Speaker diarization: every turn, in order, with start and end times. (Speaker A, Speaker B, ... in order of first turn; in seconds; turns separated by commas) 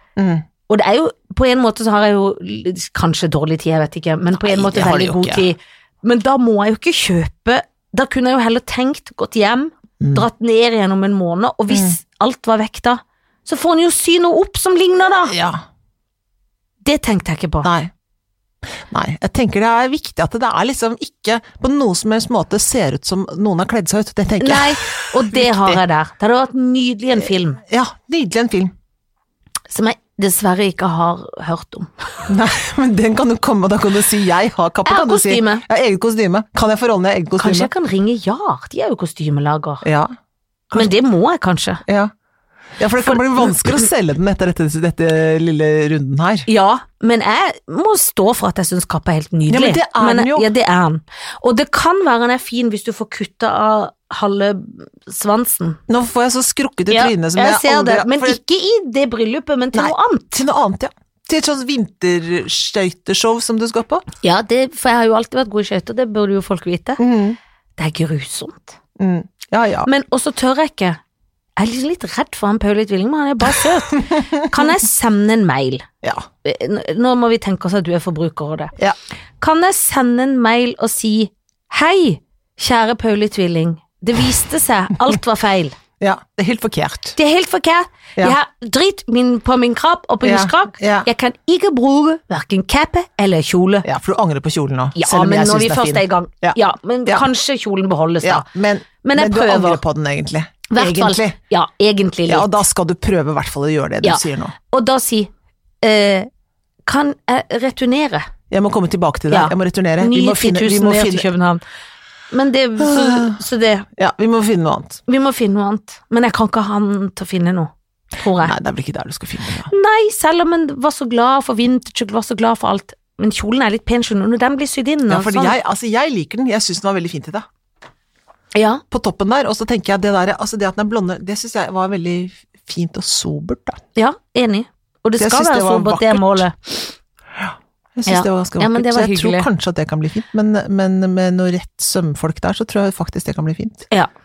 Speaker A: 0.1-0.4, Speaker B: 0.7-15.3, Speaker A: 4.4-5.5, Speaker A: 10.0-10.2, Speaker A: 15.3-15.6, Speaker B: 16.8-17.7, Speaker A: 17.6-17.9, Speaker A: 18.9-25.8, Speaker B: 24.4-27.6, Speaker A: 27.2-28.7, Speaker B: 29.7-31.9, Speaker A: 32.3-37.7, Speaker B: 34.8-35.6, Speaker B: 37.4-39.8, Speaker A: 39.8-40.1, Speaker B: 40.7-41.8, Speaker A: 41.9-42.1, Speaker A: 42.8-46.5, Speaker B: 43.0-43.5, Speaker B: 46.5-55.8, Speaker A: 49.5-50.5, Speaker A: 55.9-58.4, Speaker B: 56.9-60.4, Speaker A: 59.7-64.0, Speaker B: 64.2-67.0, Speaker A: 67.0-67.4, Speaker B: 67.8-68.8, Speaker A: 69.0-69.9, Speaker B: 69.8-71.0, Speaker B: 71.6-75.8, Speaker B: 76.4-78.7, Speaker B: 79.4-85.8, Speaker A: 86.0-87.2, Speaker B: 87.2-93.9, Speaker A: 90.2-91.1, Speaker A: 93.8-97.3, Speaker B: 94.9-98.5, Speaker A: 98.2-101.3, Speaker B: 99.0-99.8, Speaker B: 100.7-102.5, Speaker A: 102.3-104.5, Speaker B: 104.0-105.3, Speaker B: 105.8-106.3, Speaker B: 106.8-108.3, Speaker A: 108.5-111.3, Speaker B: 109.3-111.6, Speaker B: 112.3-113.9, Speaker A: 112.8-113.4, Speaker A: 113.9-115.0, Speaker B: 115.1-118.5, Speaker A: 118.4-119.7, Speaker B: 119.7-125.5, Speaker A: 125.1-127.5, Speaker B: 128.5-128.8, Speaker A: 128.9-133.8, Speaker B: 133.9-136.9, Speaker A: 135.2-136.5, Speaker A: 137.4-143.9, Speaker B: 138.1-139.5